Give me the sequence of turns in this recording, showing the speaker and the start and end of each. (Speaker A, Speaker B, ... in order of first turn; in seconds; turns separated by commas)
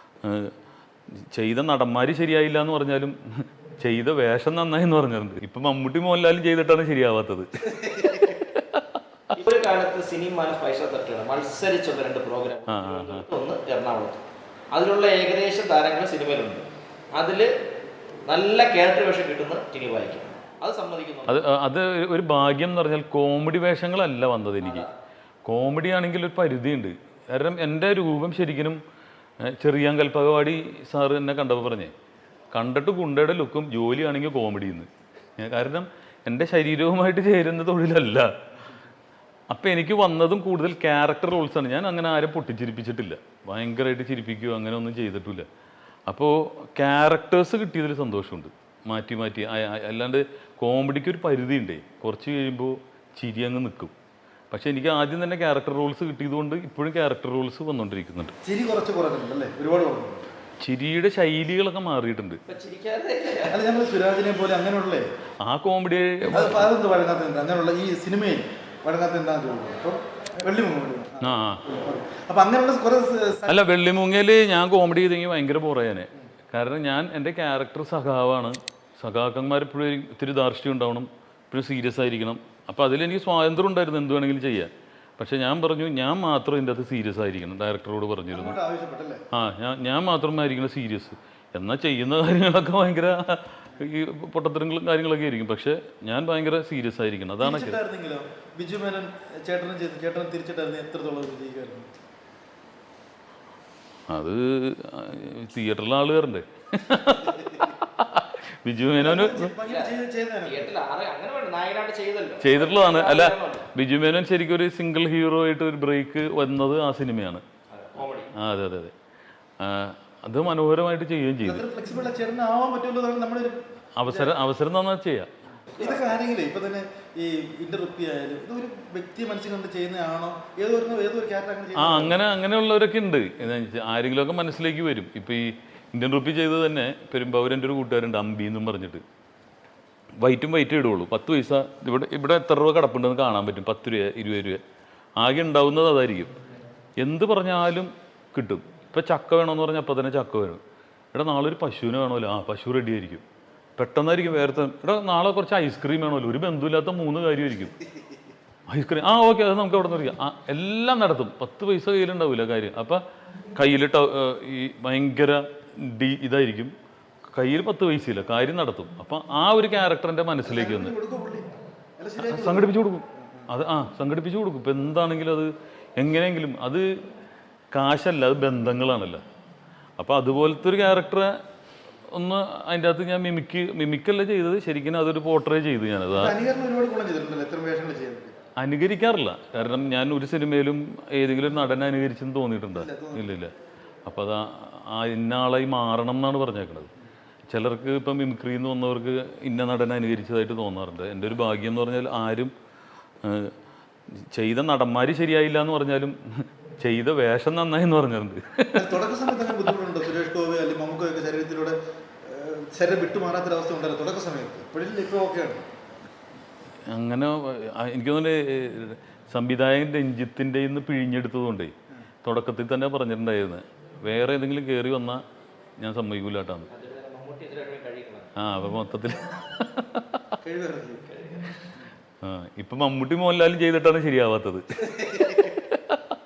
Speaker A: 0.2-0.5, Speaker A: 1.3-9.3, Speaker B: 9.4-17.5, Speaker A: 12.7-13.3, Speaker B: 18.2-21.4, Speaker A: 21.3-24.9, Speaker B: 24.6-24.9, Speaker A: 25.4-28.8, Speaker A: 29.4-31.9, Speaker A: 32.5-38.3, Speaker A: 39.5-45.5, Speaker A: 46.1-53.9, Speaker A: 54.5-58.3, Speaker C: 58.4-60.2, Speaker A: 60.6-62.4, Speaker B: 62.5-63.6, Speaker C: 63.5-65.1, Speaker A: 65.4-66.7, Speaker C: 66.3-73.6, Speaker A: 71.2-71.6, Speaker A: 73.5-88.6, Speaker C: 88.3-89.2, Speaker A: 89.3-97.8, Speaker C: 97.4-101.9, Speaker A: 104.1-109.5, Speaker C: 109.0-110.7, Speaker B: 109.7-113.7, Speaker A: 112.4-117.4, Speaker B: 117.7-118.3, Speaker A: 118.3-118.9, Speaker A: 119.6-121.6, Speaker C: 121.4-123.6, Speaker A: 124.0-125.3, Speaker C: 124.1-124.3, Speaker C: 125.8-132.2, Speaker B: 125.8-126.1, Speaker A: 131.8-139.0, Speaker A: 140.2-144.6, Speaker A: 145.2-146.3, Speaker A: 147.0-150.6, Speaker A: 151.1-153.2, Speaker A: 153.8-157.7, Speaker A: 158.7-163.0, Speaker A: 163.5-166.7, Speaker A: 167.3-170.9, Speaker C: 170.4-171.5, Speaker C: 172.0-173.5, Speaker A: 172.2-176.9, Speaker A: 177.7-179.2, Speaker A: 180.0-181.4, Speaker A: 182.1-186.3, Speaker C: 186.1-188.3, Speaker A: 188.6-193.5, Speaker C: 192.7-193.3, Speaker A: 194.1-196.9, Speaker A: 197.5-202.5, Speaker A: 203.2-203.5, Speaker A: 204.2-209.1, Speaker C: 208.7-215.6, Speaker A: 216.9-225.2, Speaker A: 225.8-226.7, Speaker B: 226.7-228.3, Speaker A: 228.4-230.3, Speaker C: 230.4-231.0, Speaker B: 231.1-231.7, Speaker A: 232.2-236.1, Speaker C: 234.8-235.4